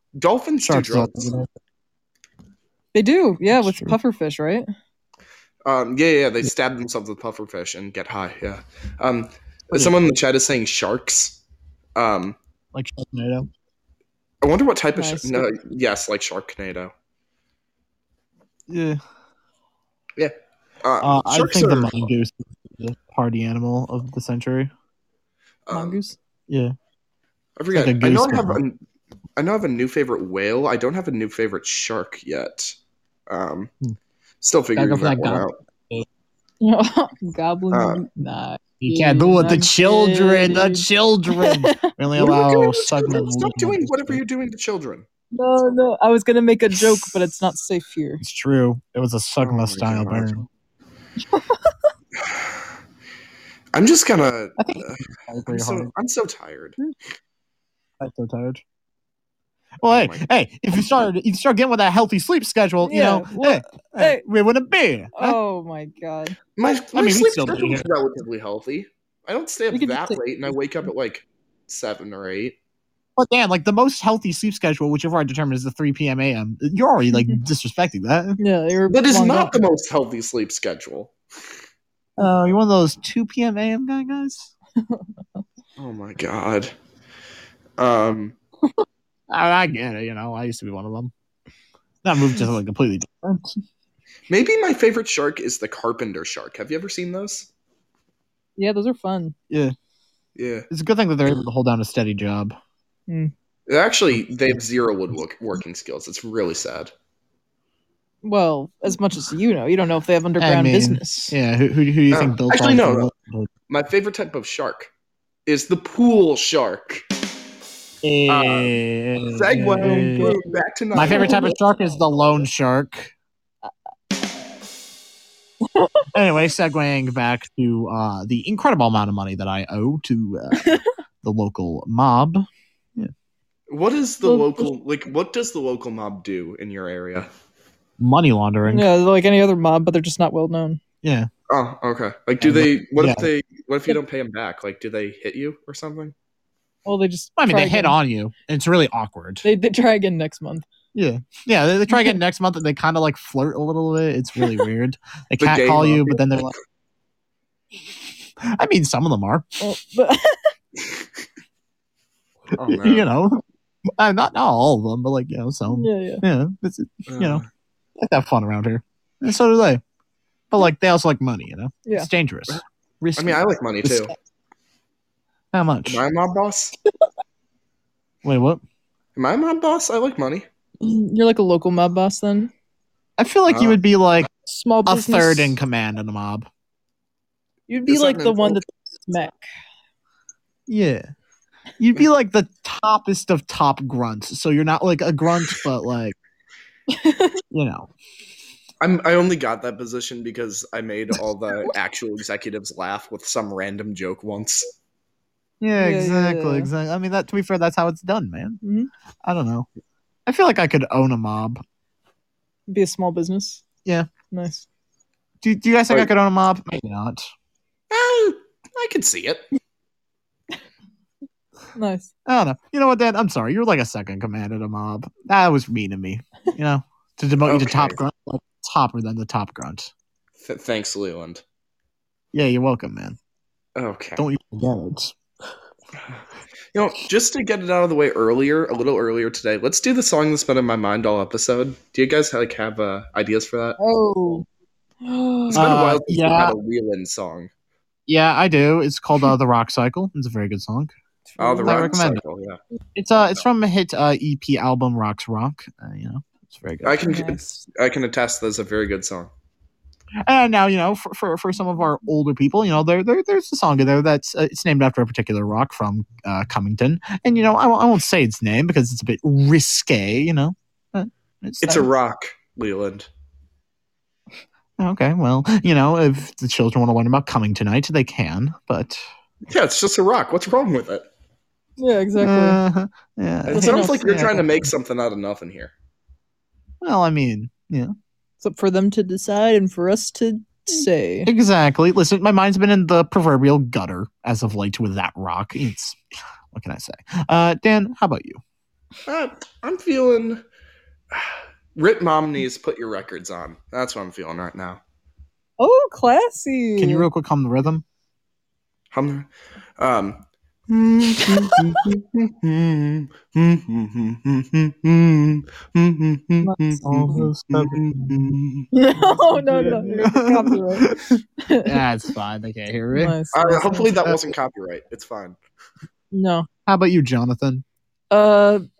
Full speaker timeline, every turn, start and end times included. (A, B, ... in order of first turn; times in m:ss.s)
0:00.2-0:01.4 A
0:00.6-0:01.5 B
0:02.9-0:04.6 C
0:03.6-0:04.0 B
0:05.6-0:11.4 A
0:09.7-0:10.0 B
0:12.0-0:12.4 A
0:12.7-0:13.5 B
0:14.4-0:16.9 A
0:14.9-0:15.5 C
0:18.7-0:19.0 B
0:20.2-0:22.1 A
0:21.0-0:24.7 B
0:25.7-0:26.0 A
0:25.7-0:26.2 C
0:27.6-0:28.8 A
0:27.7-0:28.6 B
0:29.4-0:32.8 A
0:33.3-0:33.7 A
0:34.4-0:35.6 A
0:34.7-0:36.0 B
0:36.6-0:41.9 C
0:37.7-0:38.0 A
0:38.8-0:44.2 B
0:42.1-0:45.1 A
0:45.3-0:48.2 C
0:48.2-0:50.4 B
0:49.4-0:50.4 A
0:51.3-0:51.8 C
0:52.2-0:52.5 A
0:53.7-0:56.8 A
0:54.6-0:55.9 B
0:58.0-0:58.6 B
0:59.8-1:05.4 B
0:59.9-1:00.2 A
1:02.8-1:04.2 C
1:05.1-1:06.4 C
1:06.6-1:12.6 A
1:06.9-1:07.9 B
1:09.7-1:10.5 C
1:13.2-1:18.4 B
1:18.4-1:19.6 C
1:18.9-1:21.1 A
1:22.2-1:24.5 B
1:24.8-1:25.4 C
1:25.8-1:26.7 A
1:27.8-1:28.4 A
1:29.3-1:31.1 B
1:32.0-1:33.5 B
1:34.3-1:37.5 A
1:38.6-1:39.3 C
1:40.4-1:40.7 A
1:40.7-1:42.5 B
1:43.7-1:46.9 A
1:48.2-1:51.4 C
1:50.4-1:53.5 B
1:52.1-1:53.1 A
1:53.7-1:54.9 A
1:55.4-1:57.0 A
1:58.0-2:00.3 B
1:58.3-2:01.4 A
2:00.0-2:01.6 C
2:00.9-2:03.1 B
2:05.6-2:06.0 C
2:06.1-2:12.4 B
2:10.5-2:10.9 C
2:13.7-2:17.3 A
2:14.2-2:14.7 C
2:18.0-2:18.9 B
2:18.6-2:20.8 C
2:21.0-2:21.3 B
2:21.5-2:26.1 A
2:22.4-2:23.3 B
2:26.8-2:28.0 C
2:27.4-2:29.4 B
2:29.4-2:30.6 C
2:30.9-2:36.5 B
2:35.4-2:36.5 A
2:38.4-2:39.4 B
2:39.6-2:40.5 C
2:40.8-2:41.0 A
2:42.5-2:43.1 A
2:42.6-2:43.4 B
2:44.0-2:47.4 B
2:45.7-2:46.2 C
2:47.1-2:47.5 A
2:48.0-2:49.8 B
2:50.5-2:54.1 B
2:53.2-2:54.1 A
2:55.5-2:56.0 B
2:55.8-2:56.7 A
2:58.2-2:58.6 B
2:59.2-3:00.4 A
3:00.8-3:02.5 C
3:03.2-3:04.3 B
3:03.5-3:03.8 A
3:04.4-3:05.6 C
3:04.8-3:06.5 B
3:07.7-3:09.4 C
3:07.9-3:08.6 A
3:10.7-3:11.0 B
3:11.8-3:16.2 B
3:16.9-3:17.4 C
3:17.5-3:17.9 B
3:18.8-3:24.6 A
3:25.6-3:28.6 B
3:25.7-3:26.7 C
3:28.6-3:28.9 C
3:29.2-3:29.7 B
3:30.3-3:31.6 B
3:32.7-3:33.6 C
3:34.3-3:34.6 C
3:35.4-3:37.2 B
3:37.9-3:39.4 A
3:41.8-3:42.1 C
3:42.3-3:49.9 B
3:47.4-3:48.0 A
3:50.4-3:51.4 A
3:52.3-3:53.2 B
3:53.8-3:54.3 A
3:54.2-3:55.2 B
3:56.7-4:03.8 A
4:03.8-4:04.4 C
4:05.0-4:05.7 C
4:05.5-4:06.6 B
4:05.5-4:07.5 A
4:08.1-4:10.9 B
4:11.3-4:12.0 C
4:11.4-4:12.6 A
4:11.6-4:12.2 B
4:12.9-4:17.3 B
4:13.1-4:13.4 A
4:16.8-4:19.3 A
4:17.0-4:17.4 C
4:20.3-4:31.8 B
4:31.6-4:33.1 A
4:34.8-4:39.0 B
4:39.5-4:41.1 A
4:41.8-4:42.6 C
4:42.2-4:44.7 B
4:43.4-4:45.7 A
4:43.5-4:44.2 C
4:46.8-4:47.9 B
4:48.4-4:51.3 C
4:51.2-4:56.0 B
4:56.5-4:58.4 B
4:59.0-5:00.4 A
5:01.1-5:04.8 A
5:05.6-5:07.1 C
5:06.8-5:07.8 B
5:08.9-5:18.7 A
5:16.8-5:18.4 B
5:18.7-5:21.8 C
5:19.5-5:23.2 B
5:22.9-5:23.9 C
5:23.3-5:25.4 A
5:24.0-5:24.3 B
5:26.1-5:26.4 C
5:26.7-5:27.6 B
5:28.1-5:28.6 C